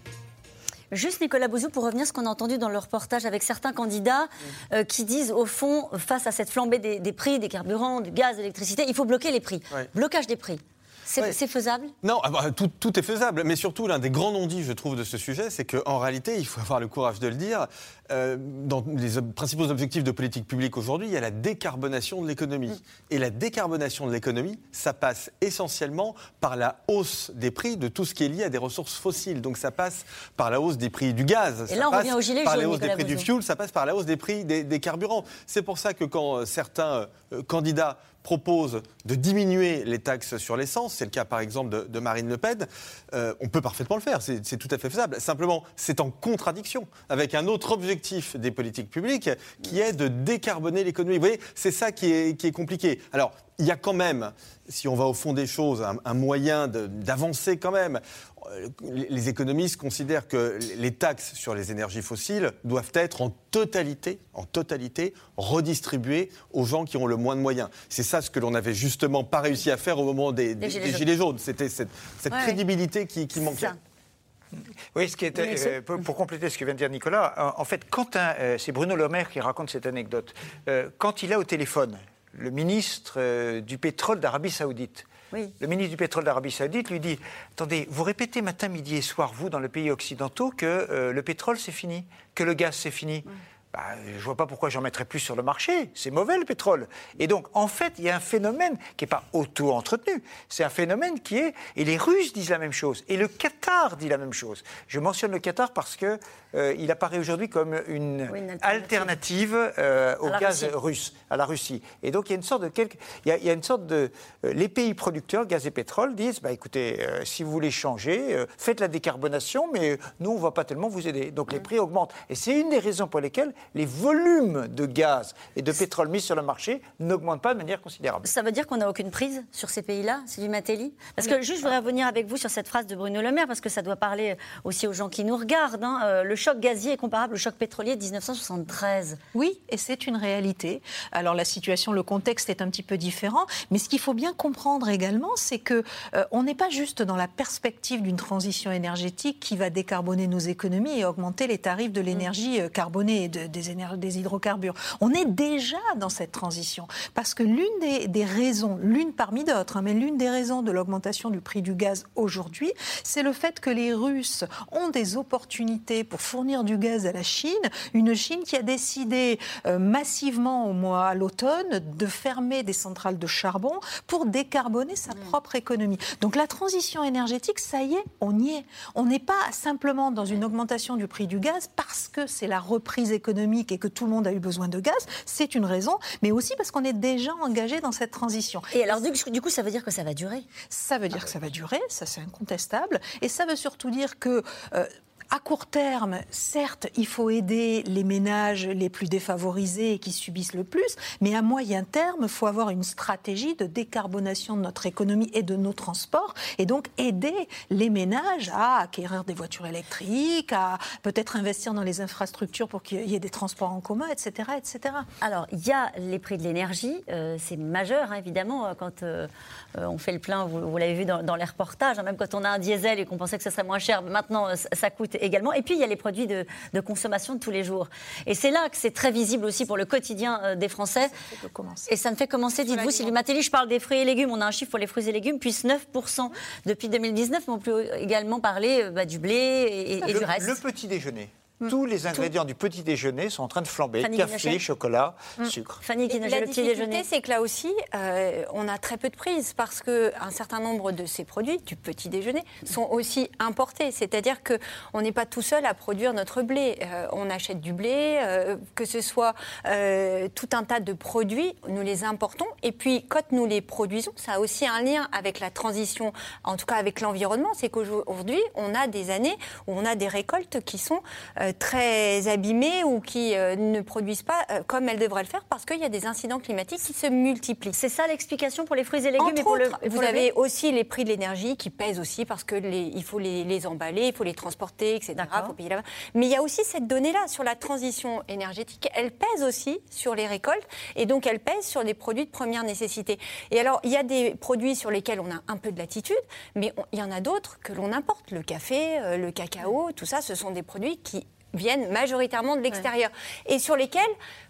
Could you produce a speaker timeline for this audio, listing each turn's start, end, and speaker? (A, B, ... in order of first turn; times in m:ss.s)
0:00.9-0:11.9 A
0:12.0-1:13.8 B
0:31.7-0:33.3 A
1:10.6-1:11.0 A
1:12.3-1:12.6 A
1:13.4-1:13.8 A
1:14.9-1:25.1 C
1:15.3-1:15.7 A
1:25.6-2:08.3 C
1:48.3-1:49.1 A
1:50.2-1:50.7 A
2:08.2-2:19.2 A
2:19.3-3:09.0 D
3:08.7-3:10.5 A
3:10.7-3:35.1 D
3:35.2-3:51.1 A
3:51.0-3:51.9 D
3:51.8-4:00.6 A
3:52.7-3:53.1 D
4:00.0-4:05.8 C
4:04.0-4:04.6 A
4:05.8-4:07.0 A
4:06.0-4:37.8 E
4:37.7-4:40.3 A
4:39.2-5:04.1 E
4:45.2-4:45.5 A